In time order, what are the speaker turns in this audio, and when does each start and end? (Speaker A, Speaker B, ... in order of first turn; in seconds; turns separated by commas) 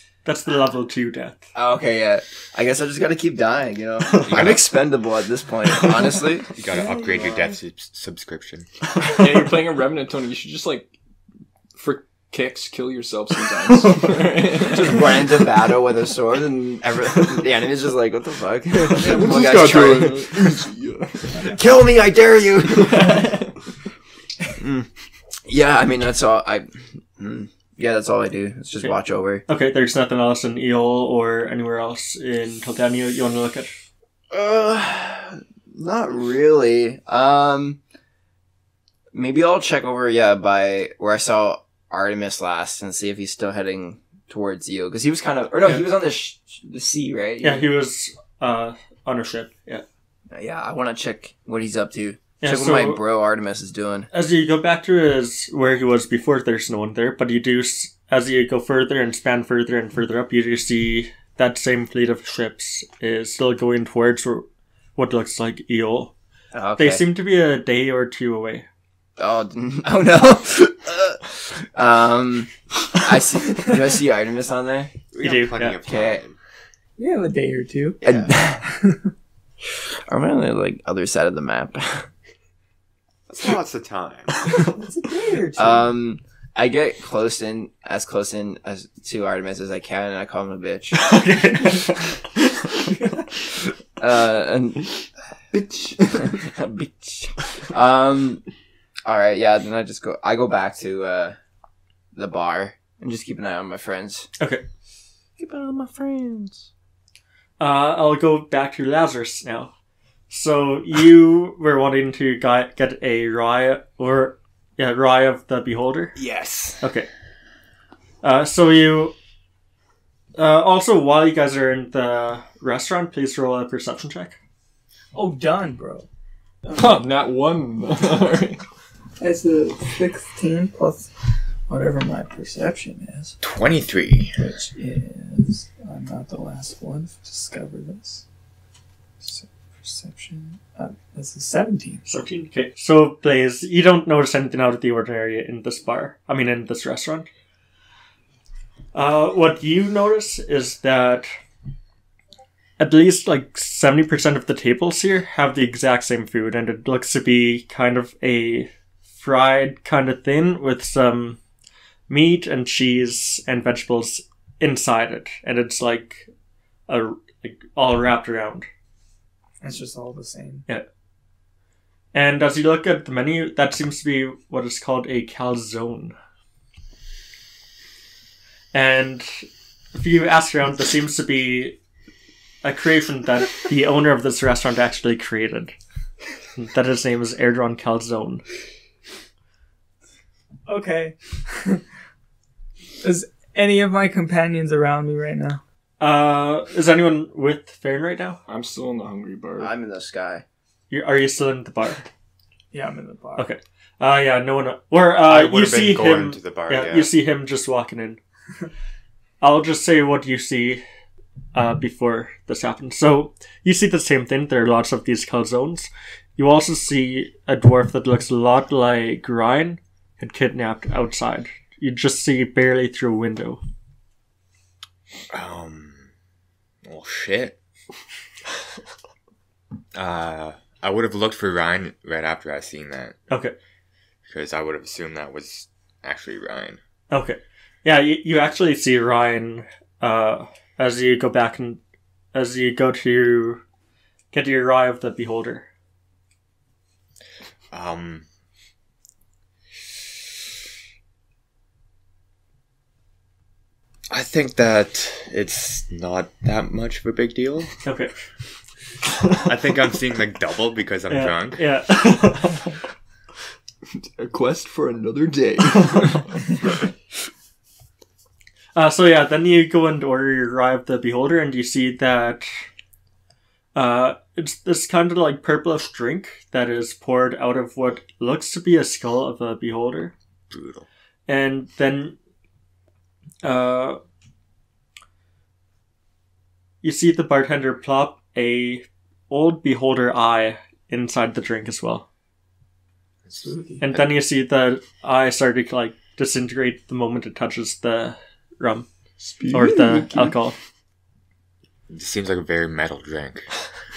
Speaker A: 0.2-1.5, Speaker B: 1.5-6.5, Speaker A: 4.1-4.6, Speaker C: 4.2-4.7, Speaker C: 6.5-8.7, Speaker D: 6.7-7.5, Speaker E: 9.1-10.9, Speaker E: 11.7-15.3, Speaker B: 14.7-20.6, Speaker E: 18.8-21.5, Speaker B: 21.4-23.3, Speaker E: 22.8-23.5, Speaker B: 24.6-24.9, Speaker B: 25.4-29.4, Speaker A: 29.5-33.8, Speaker B: 34.3-37.8, Speaker B: 39.1-47.7, Speaker A: 47.4-49.8, Speaker B: 50.3-54.1, Speaker A: 52.4-53.0, Speaker A: 54.1-66.1, Speaker B: 66.5-67.1, Speaker A: 66.8-68.7, Speaker B: 69.2-74.9, Speaker C: 75.1-76.3, Speaker A: 75.2-75.8, Speaker B: 75.8-76.2, Speaker D: 77.0-79.1, Speaker B: 78.0-78.6, Speaker B: 80.1-82.1, Speaker C: 83.3-84.3, Speaker D: 84.6-85.9, Speaker B: 85.5-91.1, Speaker A: 91.0-92.8, Speaker B: 94.0-95.0, Speaker E: 95.5-96.4, Speaker B: 96.2-98.4, Speaker B: 99.0-101.4, Speaker B: 102.1-104.3, Speaker A: 104.4-104.6, Speaker B: 105.4-106.7, Speaker A: 107.6-109.7, Speaker A: 110.3-116.2, Speaker C: 116.2-116.8, Speaker A: 116.8-117.1, Speaker A: 118.2-119.1, Speaker A: 120.3-124.3, Speaker D: 125.1-126.0, Speaker E: 126.7-128.6, Speaker D: 129.2-131.1, Speaker D: 131.7-133.4, Speaker C: 133.4-134.3, Speaker D: 134.4-138.2, Speaker D: 139.2-142.0, Speaker A: 142.1-147.3, Speaker A: 148.9-151.3, Speaker A: 152.8-161.4, Speaker A: 162.1-166.3, Speaker A: 166.9-168.7, Speaker D: 169.6-170.7, Speaker A: 172.1-176.1, Speaker A: 178.7-181.8, Speaker A: 182.6-185.7, Speaker A: 186.5-188.4, Speaker D: 190.7-191.8, Speaker D: 193.0-195.6, Speaker A: 196.0-198.4, Speaker E: 198.5-199.7, Speaker B: 199.6-200.4, Speaker A: 200.9-202.0, Speaker D: 202.7-203.5, Speaker A: 203.3-208.2, Speaker C: 205.2-207.1, Speaker A: 209.4-210.8, Speaker A: 211.5-223.6, Speaker C: 225.3-226.1, Speaker C: 226.8-227.6, Speaker C: 229.9-233.2, Speaker A: 233.3-233.5, Speaker C: 234.2-236.8, Speaker A: 237.1-241.8, Speaker A: 242.3-243.6, Speaker A: 244.3-245.7, Speaker C: 247.7-248.2, Speaker C: 254.1-257.8, Speaker A: 257.8-258.1, Speaker C: 259.4-261.7, Speaker A: 261.1-262.8, Speaker E: 263.9-266.8, Speaker A: 268.7-272.5, Speaker A: 273.7-280.1, Speaker C: 280.5-280.9, Speaker A: 281.3-282.1, Speaker A: 283.4-284.0, Speaker A: 286.8-292.1, Speaker D: 293.4-293.8, Speaker A: 293.8-298.9, Speaker E: 299.2-300.4, Speaker A: 299.5-300.6, Speaker C: 301.9-303.5